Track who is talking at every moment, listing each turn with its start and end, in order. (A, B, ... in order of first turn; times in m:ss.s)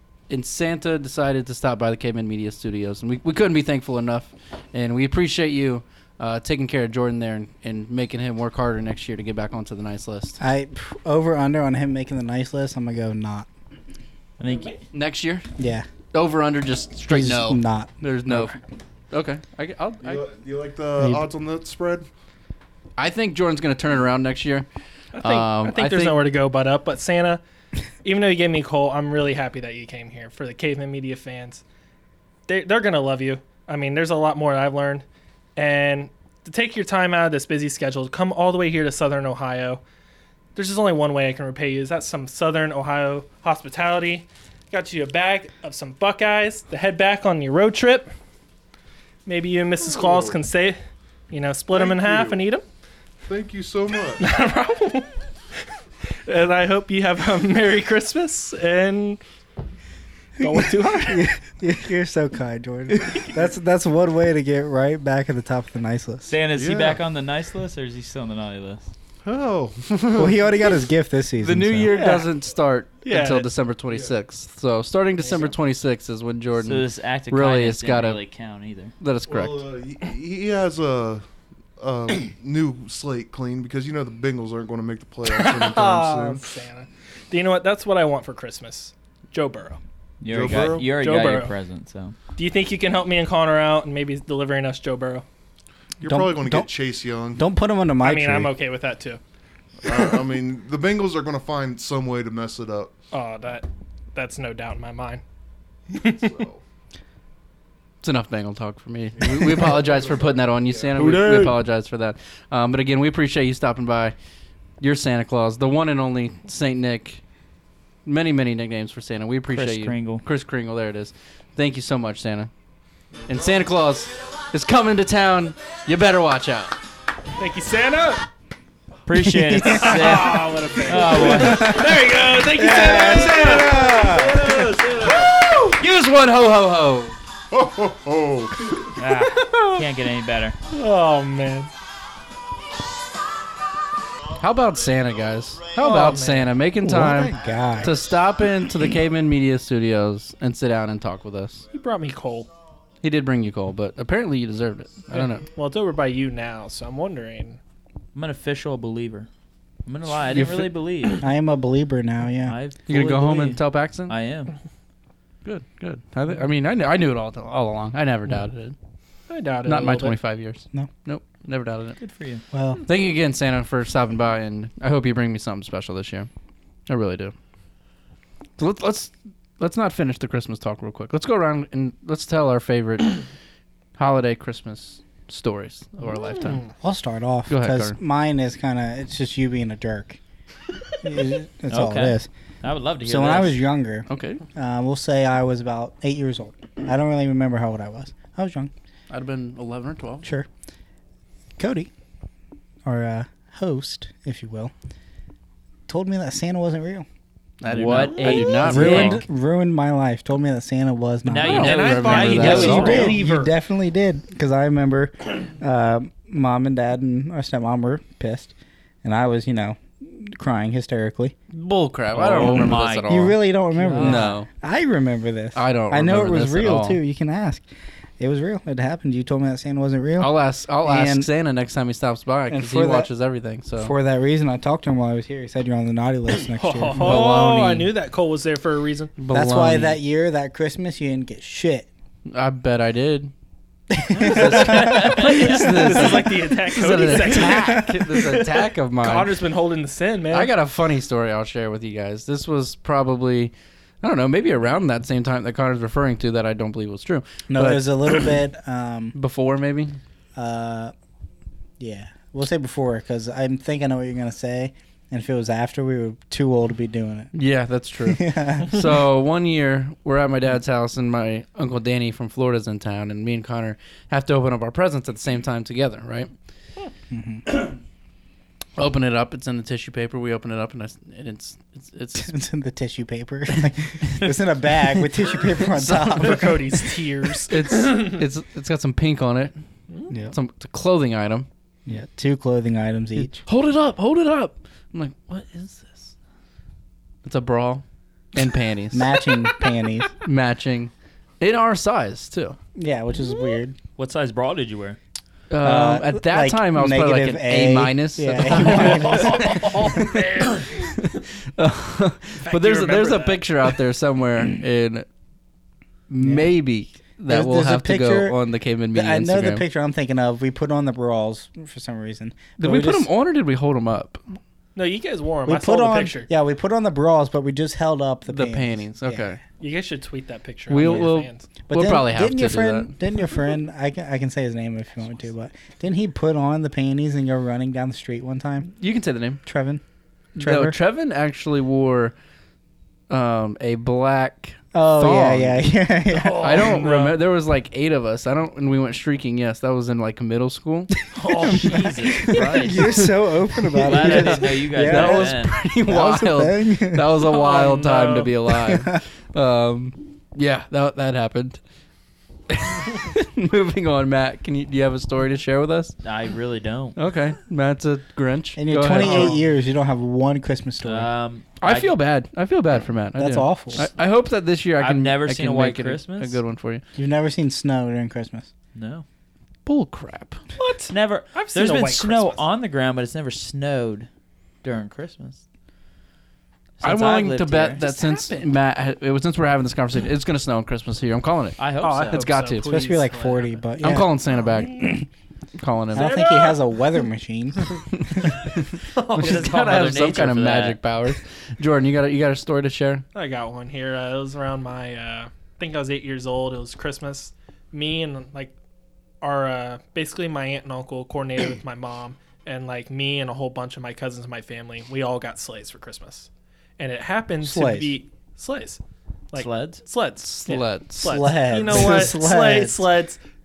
0:00.3-0:10.4 A
0:10.4-0:13.5 B
0:14.4-0:14.8 C
0:14.5-0:14.8 D
0:14.9-0:15.5 A
0:15.6-0:15.8 B
0:16.1-0:18.6 A
0:17.1-0:18.6 B
0:19.1-0:20.2 A
0:20.0-0:22.1 E
0:21.0-0:21.3 B
0:23.0-0:24.6 A
0:25.1-0:27.4 D
0:25.2-0:26.2 A
0:28.0-0:31.6 D
0:32.5-0:35.0 D
0:35.6-0:39.8 D
0:40.5-0:48.1 D
0:49.2-0:50.8 D
0:49.8-0:50.4 E
0:51.3-0:52.6 D
0:51.7-0:52.4 E
0:53.3-0:54.2 E
0:54.2-0:55.1 D
0:56.2-0:59.2 D
1:00.4-1:01.3 D
1:00.4-1:06.3 B
1:03.0-1:03.3 D
1:06.2-1:08.9 C
1:06.5-1:07.0 E
1:09.2-1:10.5 E
1:10.2-1:11.9 B
1:11.4-1:18.2 A
1:11.9-1:12.3 D
1:13.0-1:13.5 D
1:15.2-1:15.5 D
1:16.6-1:18.9 C
1:19.0-1:19.6 A
1:19.3-1:21.2 E
1:21.8-1:26.4 E
1:25.3-1:29.8 D
1:30.2-1:32.2 C
1:30.3-1:30.9 E
1:30.9-1:31.5 D
1:32.4-1:35.2 D
1:36.0-1:37.4 E
1:36.0-1:36.7 B
1:37.3-1:38.5 B
1:38.0-1:39.2 D
1:39.8-1:43.0 E
1:43.1-1:45.2 D
1:45.9-1:46.3 D
1:45.9-1:46.6 E
1:48.0-1:54.1 A
1:49.2-1:51.5 E
1:51.0-1:51.5 D
1:54.8-1:57.2 A
1:58.0-2:02.5 A
1:59.5-2:00.2 C
2:03.3-2:06.8 A
2:07.4-2:08.2 D
2:09.0-2:11.8 C
2:09.2-2:10.2 B
2:09.6-2:15.7 D
2:11.2-2:11.9 B
2:12.5-2:14.5 B
2:12.7-2:17.2 A
2:17.5-2:18.8 E
2:19.0-2:20.6 C
2:19.2-2:19.8 D
2:20.7-2:21.7 D
2:24.4-2:31.6 A
2:25.8-2:26.5 D
2:26.8-2:27.9 B
2:31.7-2:32.5 D
2:33.0-2:35.4 A
2:35.1-2:37.6 D
2:38.1-2:39.3 C
2:39.8-2:41.2 C
2:40.1-2:40.7 A
2:41.2-2:42.5 B
2:42.4-2:44.6 C
2:42.9-2:44.1 A
2:45.4-2:48.8 A
2:49.3-2:50.2 D
2:49.6-2:52.0 A
2:52.0-2:52.4 C
2:52.5-2:52.8 B
2:52.8-2:56.3 A
2:56.9-2:57.3 A
2:58.6-3:03.2 A
3:04.0-3:06.6 A
3:06.3-3:06.7 D
3:06.8-3:10.2 B
3:07.5-3:07.9 A
3:11.0-3:12.3 B
3:11.7-3:13.6 C
3:13.0-3:18.7 B
3:14.1-3:14.4 A
3:19.1-3:20.2 A
3:21.6-3:21.9 B
3:22.8-3:24.7 B
3:25.9-3:27.0 B
3:27.6-3:29.2 A
3:27.7-3:29.2 C
3:28.1-3:28.7 D
3:28.6-3:31.7 B
3:31.2-3:33.2 C
3:31.4-3:33.2 A
3:31.5-3:33.5 D
3:32.3-3:41.3 B
3:41.5-3:43.4 A
3:42.1-3:43.1 C
3:42.4-3:47.6 B
3:43.8-3:44.4 C
3:44.0-3:44.5 A
3:45.5-3:47.0 A
3:48.2-3:50.3 B
3:50.2-3:53.9 A
3:50.8-3:51.3 B
3:52.5-3:53.1 B
3:53.8-3:57.2 B
3:56.5-3:59.1 D
3:57.0-3:57.9 A
3:59.2-4:00.0 A
3:59.3-4:01.9 B
4:02.3-4:03.3 A
4:04.0-4:05.2 B
4:04.1-4:09.4 A
4:04.2-4:10.5 D
4:07.5-4:07.8 B
4:10.3-4:18.3 A
4:17.5-4:19.2 B
4:19.1-4:20.0 A
4:20.4-4:20.9 B
4:21.8-4:27.3 B
4:27.3-4:36.3 A
4:28.0-4:28.8 B
4:37.1-4:37.4 B
4:38.8-4:42.3 A
4:42.2-4:46.8 B
4:45.6-4:46.6 A
4:46.1-4:48.2 D
4:47.5-4:49.5 A
4:50.3-4:51.5 A
4:51.8-4:53.4 B
4:53.4-4:56.1 A
4:57.2-4:57.8 A
4:58.3-4:59.1 A
4:58.9-5:00.1 B
5:00.2-5:02.6 A
5:02.8-5:03.8 B
5:04.0-5:05.0 C
5:05.5-5:15.0 A
5:05.6-5:10.2 B
5:08.5-5:10.9 D
5:12.4-5:13.4 D
5:16.1-5:19.6 A
5:16.2-5:16.5 B
5:17.3-5:18.4 B
5:18.9-5:23.1 B
5:22.6-5:24.4 A
5:24.8-5:26.3 D
5:25.4-5:29.2 B
5:28.3-5:29.4 A
5:29.6-5:31.5 D
5:30.7-5:32.9 A
5:31.7-5:38.7 B
5:38.8-5:39.4 A
5:39.4-5:39.8 B
5:40.4-5:40.8 B
5:40.4-5:42.1 A
5:43.1-5:45.7 A
5:44.7-5:46.8 B
5:46.1-5:47.2 D
5:46.4-5:51.0 A
5:51.1-5:53.0 C
5:51.2-5:52.3 D
5:51.4-5:57.0 B
5:52.1-5:53.1 A
5:53.7-5:55.6 C
5:53.8-6:01.6 A
5:57.2-5:58.4 D
5:58.7-5:59.0 B
6:02.5-6:06.0 A
6:06.0-6:07.0 C
6:07.0-6:09.4 A
6:08.6-6:11.1 B
6:09.0-6:09.4 D
6:10.8-6:11.9 C
6:11.6-6:16.8 A
6:13.2-6:13.9 B
6:14.8-6:16.4 C
6:17.0-6:18.5 B
6:18.7-6:19.0 C
6:19.6-6:20.4 A
6:20.6-6:22.4 D
6:20.9-6:24.1 C
6:24.6-6:25.4 C
6:26.8-6:27.8 C
6:26.8-6:32.6 A
6:27.8-6:28.4 D
6:31.6-6:32.3 C
6:31.8-6:33.6 D
6:32.6-6:34.1 B
6:33.8-6:34.9 A
6:34.3-6:34.9 D
6:34.7-6:35.1 B
6:35.6-6:36.1 A
6:35.9-6:37.0 D
6:35.9-6:38.3 B
6:38.2-6:43.0 A
6:38.8-6:39.5 D
6:39.1-6:40.8 C
6:43.1-6:48.5 D
6:49.2-6:58.8 D
6:57.4-6:58.0 B
6:59.3-7:03.2 D
6:59.4-6:59.8 C
7:00.2-7:01.2 A
7:01.0-7:02.9 B